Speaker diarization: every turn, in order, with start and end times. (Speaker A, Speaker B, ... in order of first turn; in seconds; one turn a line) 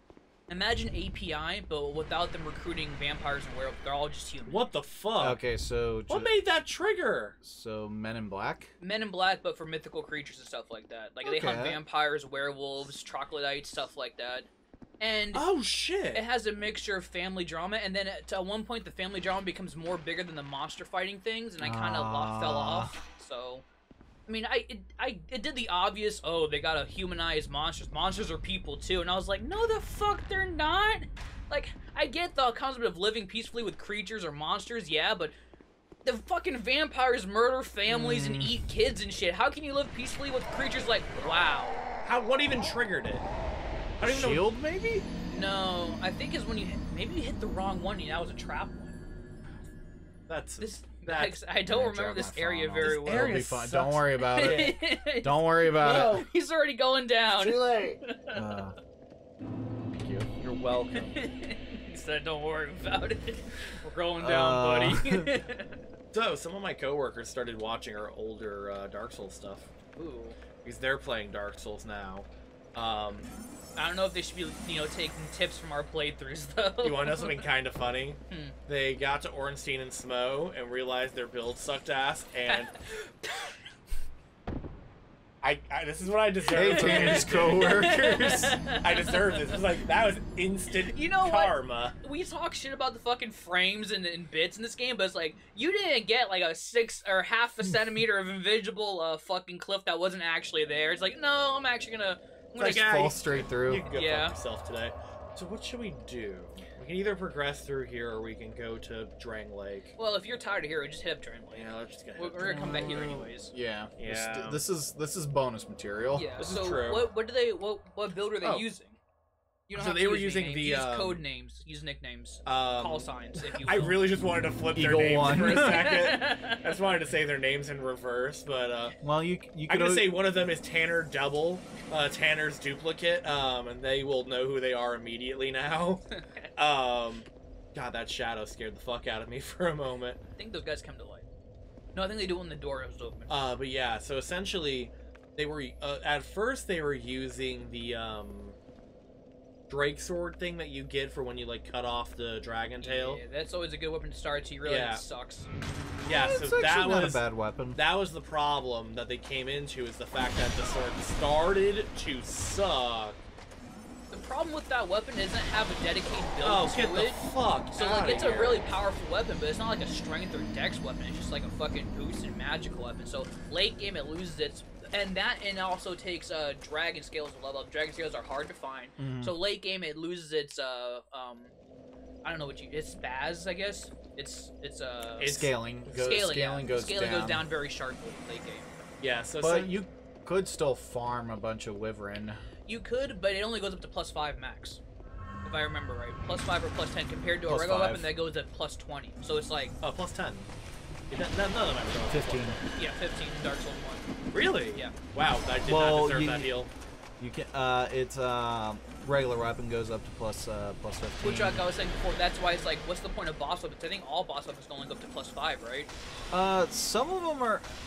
Speaker A: 0.5-4.7
Speaker B: 4.5-5.4
Speaker C: 5.2-6.3
Speaker B: 6.1-7.4
Speaker C: 7.4-8.7
Speaker A: 8.8-14.5
Speaker C: 11.2-11.8
Speaker A: 15.0-15.5
Speaker B: 15.3-16.2
Speaker A: 16.1-23.6
Speaker C: 21.6-23.0
Speaker A: 24.3-35.3
Speaker A: 36.0-41.8
Speaker C: 37.9-38.5
Speaker B: 42.0-43.3
Speaker B: 44.0-44.5
Speaker C: 44.0-45.1
Speaker A: 45.3-49.0
Speaker B: 50.3-51.4
Speaker A: 50.6-53.5
Speaker C: 51.7-56.2
Speaker B: 52.8-54.8
Speaker A: 54.3-58.4
Speaker B: 55.8-56.3
Speaker B: 57.3-58.0
Speaker C: 58.3-58.8
Speaker C: 59.9-60.3
Speaker B: 60.4-61.2
Speaker A: 60.9-65.8
Speaker C: 64.2-65.4
Speaker B: 66.1-69.7
Speaker A: 70.0-70.4
Speaker B: 70.6-73.3
Speaker A: 73.8-77.5
Speaker B: 76.8-82.8
Speaker A: 82.5-83.6
Speaker B: 85.4-88.0
Speaker C: 86.5-88.6
Speaker A: 86.7-89.1
Speaker B: 88.8-92.0
Speaker A: 90.9-103.0
Speaker B: 102.6-110.0
Speaker C: 102.6-103.9
Speaker A: 103.9-104.4
Speaker A: 110.0-113.5
Speaker B: 111.5-113.3
Speaker C: 112.4-116.3
Speaker B: 114.0-114.6
Speaker A: 116.1-119.0
Speaker B: 116.4-117.1
Speaker A: 119.7-124.0
Speaker B: 119.8-121.2
Speaker B: 122.5-129.0
Speaker C: 124.8-126.0
Speaker A: 125.5-126.7
Speaker C: 129.0-130.2
Speaker B: 129.7-140.2
Speaker A: 136.1-136.5
Speaker A: 140.4-141.3
Speaker A: 141.9-143.3
Speaker B: 143.3-148.6
Speaker B: 149.7-153.2
Speaker A: 152.8-155.5
Speaker B: 154.6-155.0
Speaker B: 156.1-157.2
Speaker C: 156.1-157.8
Speaker B: 157.7-163.2
Speaker A: 164.1-167.2
Speaker B: 166.4-168.7
Speaker A: 167.7-181.5
Speaker C: 179.0-179.4
Speaker A: 182.2-185.4
Speaker B: 185.2-186.2
Speaker C: 185.2-187.5
Speaker A: 185.9-188.9
Speaker B: 189.0-189.8
Speaker C: 189.4-192.4
Speaker A: 192.7-194.8
Speaker A: 195.4-199.8
Speaker C: 197.5-198.1
Speaker B: 199.8-200.5
Speaker B: 201.1-202.6
Speaker C: 202.1-202.6
Speaker A: 202.8-204.1
Speaker B: 204.3-206.7
Speaker C: 205.7-206.5
Speaker C: 207.2-211.6
Speaker A: 211.2-215.9
Speaker C: 216.3-217.7